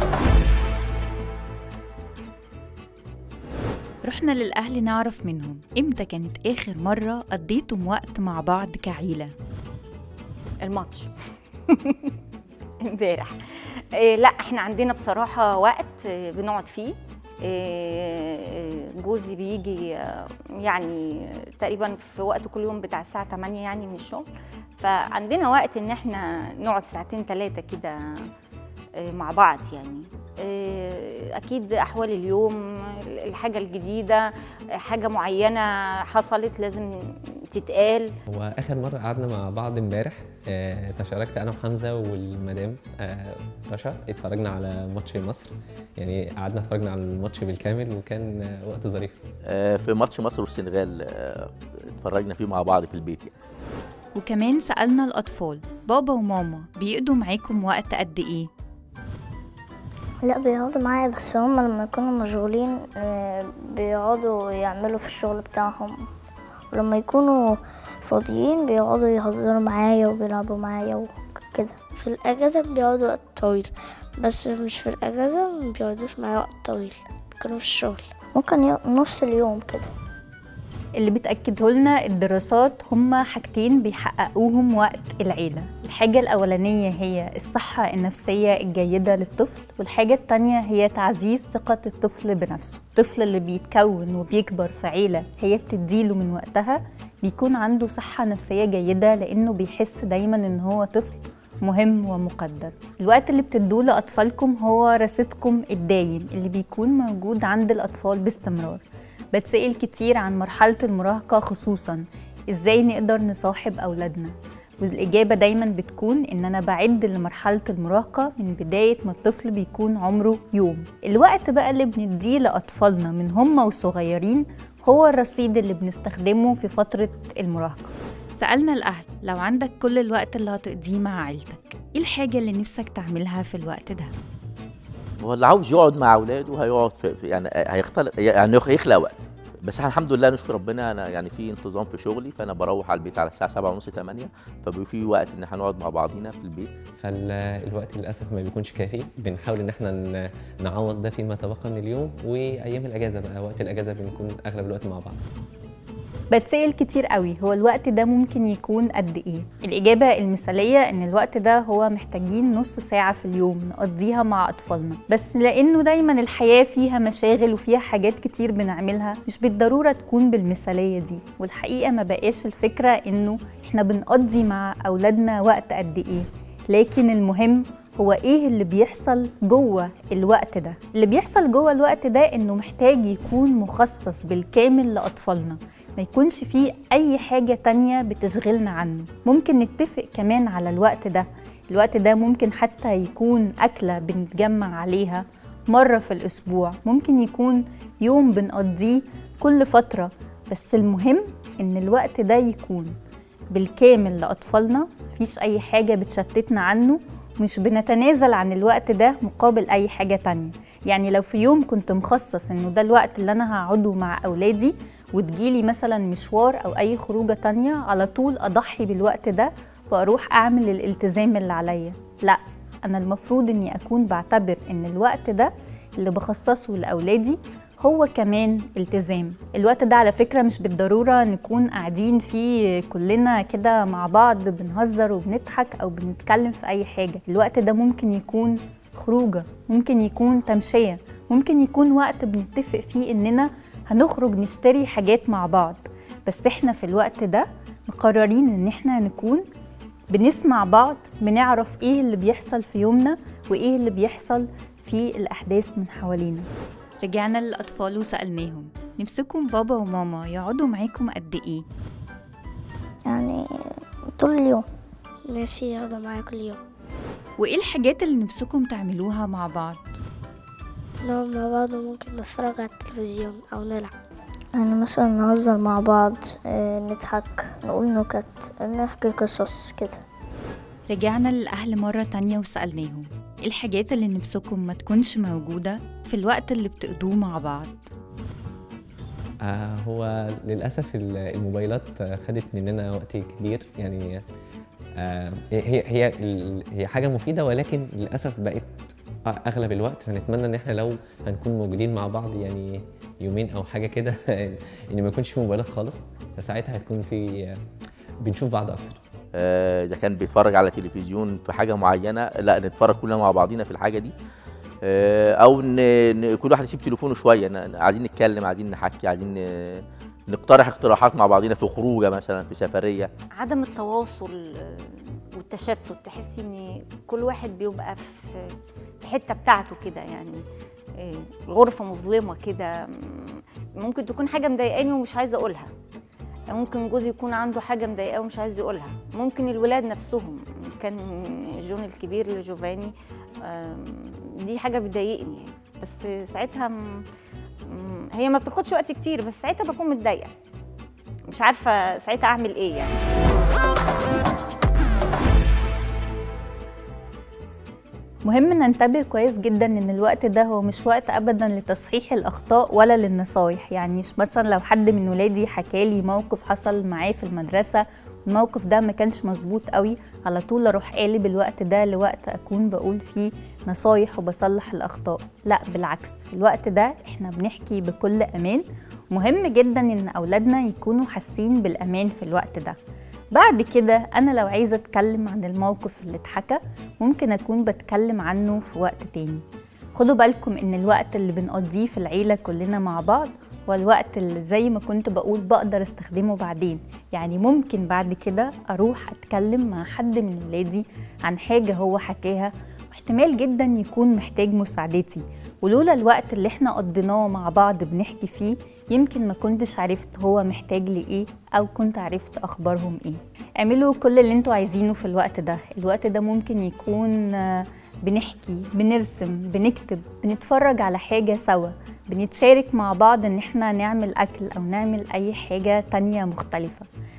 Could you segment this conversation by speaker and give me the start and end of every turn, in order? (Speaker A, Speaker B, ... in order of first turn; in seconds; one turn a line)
Speaker A: 4.0-9.3
Speaker B: 10.7-11.1
Speaker B: 11.7-12.1
Speaker B: 13.0-16.9
Speaker B: 17.5-24.3
Speaker B: 24.8-28.0
Speaker B: 29.2-32.6
Speaker B: 33.2-34.2
Speaker B: 34.9-36.9
Speaker B: 37.6-38.1
Speaker C: 38.3-49.2
Speaker D: 49.5-53.4
Speaker A: 54.2-58.5
Speaker E: 60.2-66.1
Speaker E: 66.7-71.8
Speaker F: 72.0-78.0
Speaker E: 78.4-79.9
Speaker A: 81.0-108.8
Speaker A: 109.3-134.1
Speaker D: 135.2-146.7
Speaker C: 147.0-150.0
Speaker C: 150.6-155.2
Speaker A: 156.3-202.9
Speaker A: 203.5-249.4
Speaker A: 250.1-256.5
Speaker A: 257.0-261.6
Speaker E: 263.1-263.4
Speaker E: 264.2-264.6
Speaker F: 265.3-266.6
Speaker A: 267.4-269.8
Speaker F: 271.0-273.9
Speaker E: 274.6-280.0
Speaker A: 280.9-287.8
Speaker C: 289.4-294.2
Speaker C: 295.0-298.7
Speaker C: 299.3-307.5
Speaker C: 308.2-309.0
Speaker D: 309.3-314.1
Speaker D: 314.8-323.1
Speaker B: 323.4-328.4
Speaker B: 329.0-330.4
Speaker B: 331.0-335.7
Speaker B: 336.5-342.9
Speaker B: 343.5-346.8
Speaker B: 347.7-350.3
Speaker B: 351.3-353.0
Speaker A: 358.3-382.8
Speaker A: 383.3-389.4
Speaker A: 389.9-426.9